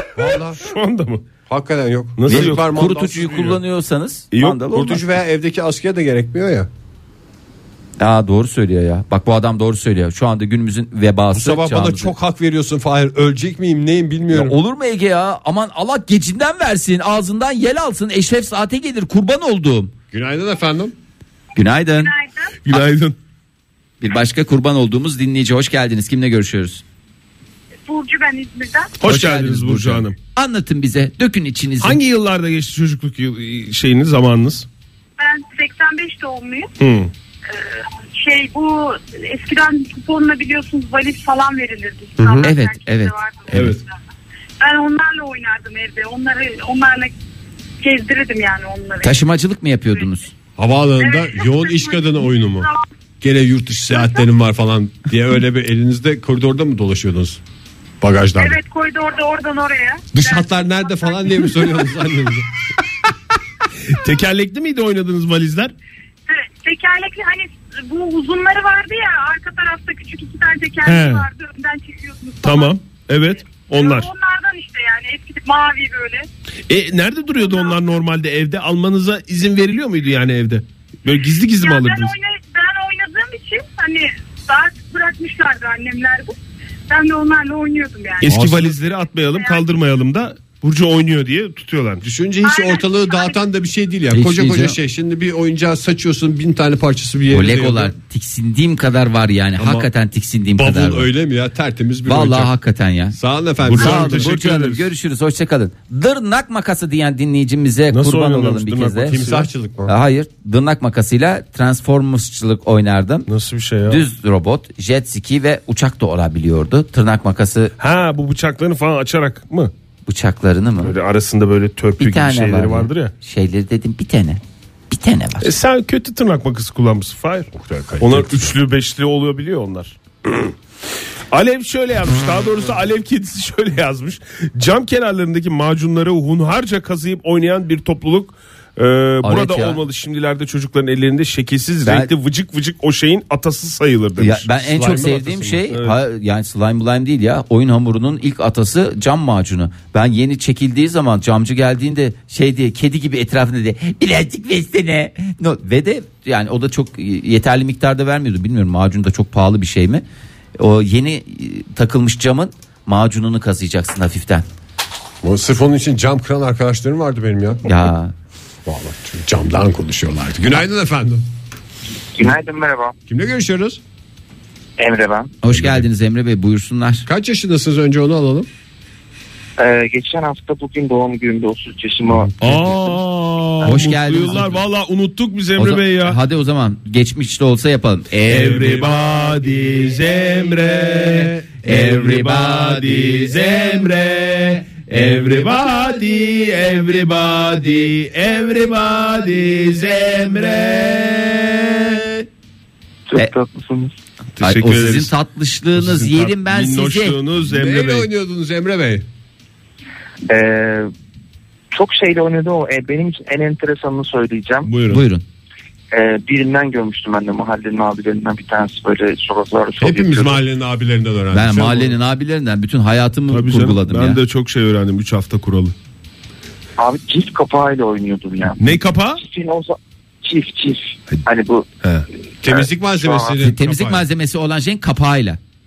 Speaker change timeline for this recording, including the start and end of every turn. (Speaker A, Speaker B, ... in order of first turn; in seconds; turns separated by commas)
Speaker A: 0.1-0.7, Speaker B: 0.5-1.2, Speaker A: 1.5-3.6, Speaker B: 2.2-3.6, Speaker C: 2.3-5.0, Speaker B: 4.3-4.8, Speaker A: 4.6-6.7, Speaker C: 8.0-12.1, Speaker A: 11.3-14.6, Speaker C: 14.3-19.9, Speaker A: 20.1-20.9, Speaker C: 21.6-22.1, Speaker D: 22.0-22.5, Speaker B: 22.6-23.2, Speaker C: 24.0-26.8, Speaker D: 27.9-28.9, Speaker B: 29.0-30.2, Speaker C: 29.0-32.0, Speaker B: 31.8-34.7, Speaker D: 35.2-36.7, Speaker B: 36.8-37.1, Speaker D: 37.5-44.0, Speaker A: 42.2-42.5, Speaker C: 42.4-43.7, Speaker D: 44.6-47.1, Speaker D: 47.8-49.3, Speaker C: 49.0-50.3, Speaker D: 49.9-50.1, Speaker A: 50.6-52.7, Speaker D: 51.0-52.8, Speaker A: 53.2-57.4, Speaker A: 58.0-58.6, Speaker D: 58.4-61.8, Speaker A: 60.1-62.5, Speaker B: 63.9-65.7, Speaker D: 66.3-72.8, Speaker B: 70.8-71.3, Speaker B: 72.4-74.1, Speaker D: 73.6-76.3, Speaker B: 76.7-82.1, Speaker D: 77.4-77.8, Speaker D: 81.6-86.4, Speaker D: 86.9-88.4, Speaker B: 88.2-92.1, Speaker A: 88.2-88.8, Speaker D: 89.3-89.6, Speaker A: 92.0-97.9, Speaker D: 92.4-93.4, Speaker C: 94.1-94.8, Speaker C: 97.3-101.1, Speaker A: 99.6-99.9, Speaker A: 100.6-102.5, Speaker C: 102.1-103.2, Speaker A: 103.1-104.3, Speaker B: 103.7-104.9, Speaker C: 103.7-109.2, Speaker B: 107.9-109.5, Speaker A: 109.1-109.9, Speaker C: 109.9-113.3, Speaker B: 113.3-114.0, Speaker C: 113.9-117.7, Speaker B: 117.8-119.7, Speaker C: 120.1-120.9, Speaker B: 120.8-123.1, Speaker C: 122.0-125.5, Speaker B: 125.4-130.5, Speaker A: 127.5-128.6, Speaker B: 131.3-144.5, Speaker C: 139.2-139.8, Speaker C: 141.9-142.1, Speaker C: 144.2-160.0, Speaker A: 144.6-145.7, Speaker C: 160.6-164.4, Speaker A: 165.2-167.7, Speaker C: 167.7-168.1, Speaker A: 168.7-171.2, Speaker E: 172.2-172.9, Speaker A: 173.1-173.8, Speaker E: 174.8-175.4, Speaker C: 175.4-177.1, Speaker A: 175.5-175.9, Speaker A: 177.1-178.5, Speaker E: 179.6-182.3, Speaker A: 182.2-182.7, Speaker B: 182.4-186.2, Speaker C: 183.6-184.6, Speaker C: 185.6-188.8, Speaker B: 188.3-202.1, Speaker A: 188.6-188.9, Speaker C: 191.6-193.3, Speaker E: 203.1-203.9, Speaker B: 204.4-205.1, Speaker C: 204.4-207.2, Speaker B: 205.8-208.1, Speaker A: 207.4-209.1, Speaker E: 210.3-210.9, Speaker E: 211.7-214.7, Speaker B: 214.7-215.0, Speaker C: 214.9-215.2, Speaker E: 215.9-220.4, Speaker A: 219.8-222.0, Speaker C: 221.3-224.2, Speaker B: 223.3-225.7, Speaker E: 226.8-231.7, Speaker B: 228.6-229.2, Speaker A: 232.4-234.1, Speaker E: 232.4-233.5, Speaker C: 233.4-235.4